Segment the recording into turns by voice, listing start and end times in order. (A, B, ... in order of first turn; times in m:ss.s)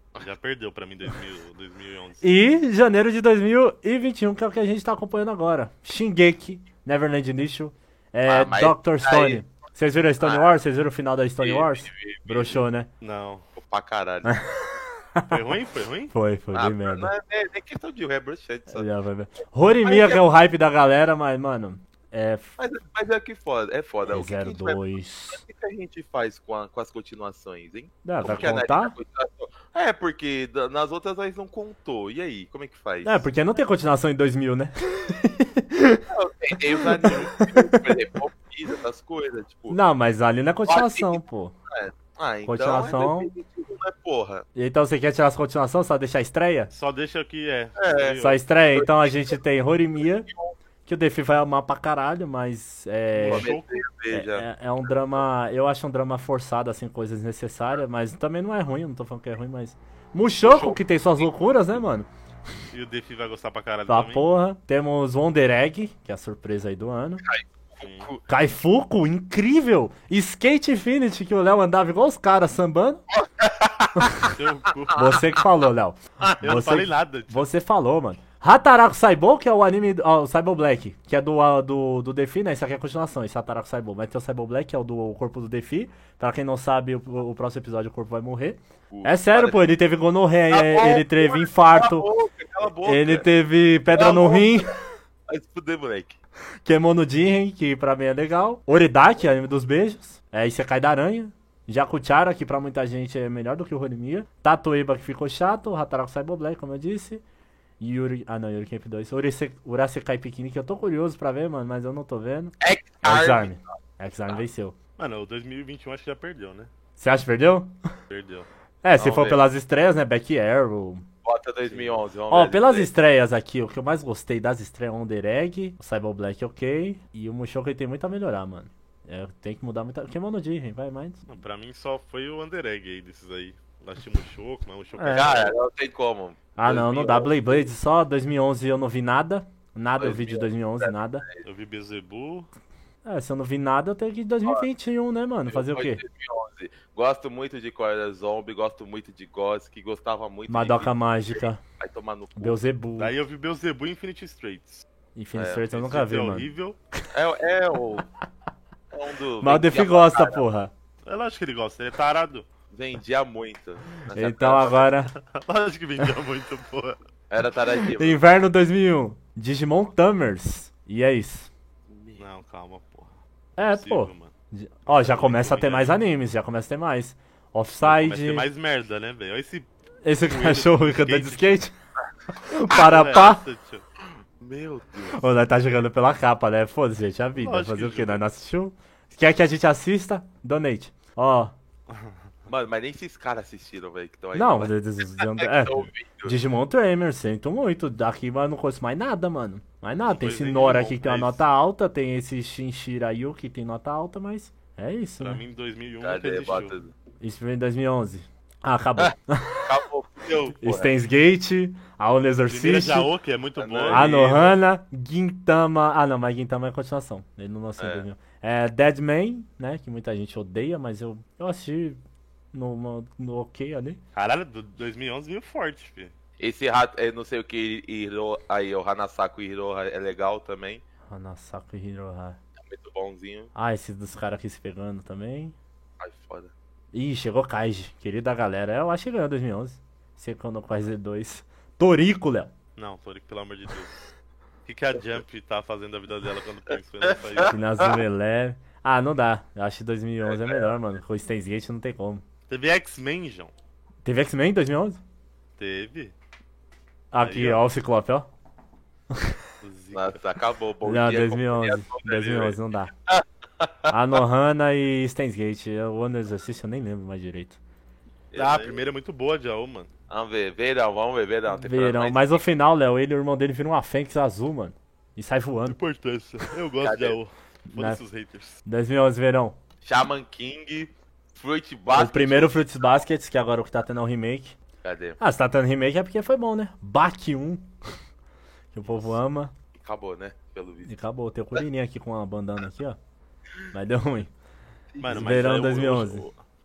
0:00.2-0:02.3 A
0:02.2-0:12.9 B
0:08.2-0:09.4 C
0:10.2-0:10.5 C
0:11.4-0:12.6 C
0:13.0-0:13.4 A
0:13.6-0:14.4 C
0:14.2-0:15.4 B
0:15.3-0:16.1 A
0:16.1-0:17.1 B
0:16.5-0:18.9 C
0:18.7-0:22.5 B
0:19.8-0:20.2 C
0:22.6-0:33.2 C
0:24.1-0:25.4 B
0:28.0-0:28.9 B
0:33.0-0:36.0 B
0:36.1-0:39.8 C
0:36.8-0:37.9 B
0:39.7-0:41.5 B
0:40.7-0:44.4 C
0:42.4-0:43.3 B
0:44.5-0:46.7 B
0:46.7-0:48.4 A
0:47.8-0:48.2 C
0:48.2-0:50.3 B
0:48.7-0:49.4 C
0:50.3-0:50.5 C
0:50.8-0:53.5 B
0:53.1-0:53.8 A
0:53.3-0:54.4 C
0:54.1-1:02.1 B
1:00.4-1:00.8 C
1:02.7-1:04.3 A
1:03.9-1:07.2 B
1:07.3-1:08.2 C
1:07.8-1:08.1 A
1:08.3-1:13.0 B
1:13.1-1:14.3 C
1:14.0-1:14.3 B
1:14.3-1:15.1 A
1:14.9-1:32.1 B
1:16.2-1:16.6 C
1:16.4-1:17.5 A
1:28.9-1:29.6 C
1:30.5-1:33.3 C
1:32.8-1:34.7 B
1:33.9-1:34.7 C
1:35.3-1:36.2 C
1:36.6-1:47.2 B
1:47.8-1:54.8 B
1:52.6-1:53.6 C
1:55.0-1:56.7 A
1:57.0-1:57.8 B
1:58.1-1:58.5 A
1:58.8-2:01.0 B
1:59.0-1:59.4 C
2:01.2-2:02.9 C
2:01.7-2:02.0 A
2:02.3-2:11.2 B
2:11.3-2:15.5 A
2:15.0-2:15.3 B
2:15.1-2:17.7 C
2:16.6-2:21.2 B
2:20.0-2:21.4 C
2:21.4-2:22.5 A
2:23.0-2:26.0 B
2:25.5-2:32.6 C
2:30.5-2:31.6 B
2:32.4-2:33.2 B
2:33.0-2:34.8 A
2:35.1-2:36.5 B
2:35.3-2:35.6 C
2:35.7-2:36.8 A
2:37.1-2:38.0 C
2:38.9-2:40.4 C
2:39.4-2:40.7 B
2:41.0-2:42.4 A
2:42.7-2:44.9 C
2:44.1-2:45.1 B
2:45.1-2:47.0 A
2:47.3-2:48.2 C
2:47.9-2:51.5 B
2:51.9-2:52.2 C
2:52.2-2:53.1 A
2:53.6-2:58.5 B
2:53.7-2:54.3 A
2:54.9-2:56.0 A
2:57.8-2:59.7 A
3:00.0-3:01.7 B
3:00.2-3:01.6 A
3:02.4-3:03.4 B
3:02.7-3:03.3 C
3:02.7-3:03.8 A
3:04.4-3:05.3 C
3:05.1-3:11.5 B
3:07.4-3:08.2 A
3:11.9-3:12.1 A
3:12.5-3:16.4 C
3:14.3-3:25.4 B
3:20.1-3:21.4 A
3:25.2-3:26.7 A
3:26.0-3:26.9 C
3:27.2-3:29.7 B
3:29.6-3:30.9 C
3:30.6-3:33.1 B
3:32.5-3:34.6 A
3:33.6-3:34.1 C
3:33.9-3:42.0 B
3:37.8-3:38.0 C
3:42.5-3:44.0 B
3:44.1-3:46.1 A
3:46.4-3:50.8 C
3:51.1-3:52.4 B
3:52.6-3:53.5 C
3:53.5-3:55.6 B
3:56.0-3:56.5 C
3:56.9-4:02.5 B
4:02.8-4:04.0 A
4:04.7-4:07.6 A
4:07.0-4:07.9 C
4:07.4-4:12.2 B
4:10.2-4:10.7 C
4:12.5-4:13.5 A
4:14.0-4:15.0 B
4:15.6-4:16.1 A
4:17.1-4:18.3 B
4:17.2-4:17.6 A
4:19.6-4:20.2 A
4:19.9-4:22.6 C
4:20.8-4:22.9 B
4:23.1-4:23.9 C
4:23.9-4:27.6 B
4:28.3-4:28.8 C
4:28.3-4:29.9 A
4:30.1-4:32.4 C
4:31.6-4:35.8 B
4:35.7-4:38.6 A
4:36.8-4:37.2 C
4:37.7-4:38.0 B
4:38.6-4:39.6 B
4:39.8-4:43.0 C
4:41.9-4:44.6 B
4:44.8-4:45.2 C
4:45.2-4:47.7 B
4:48.7-4:49.5 B
4:48.8-4:49.1 A
4:49.8-4:50.9 C
4:50.8-4:53.0 B
4:53.7-4:54.3 B
4:54.9-4:55.4 C
4:55.0-4:56.4 A
4:55.1-4:56.3 B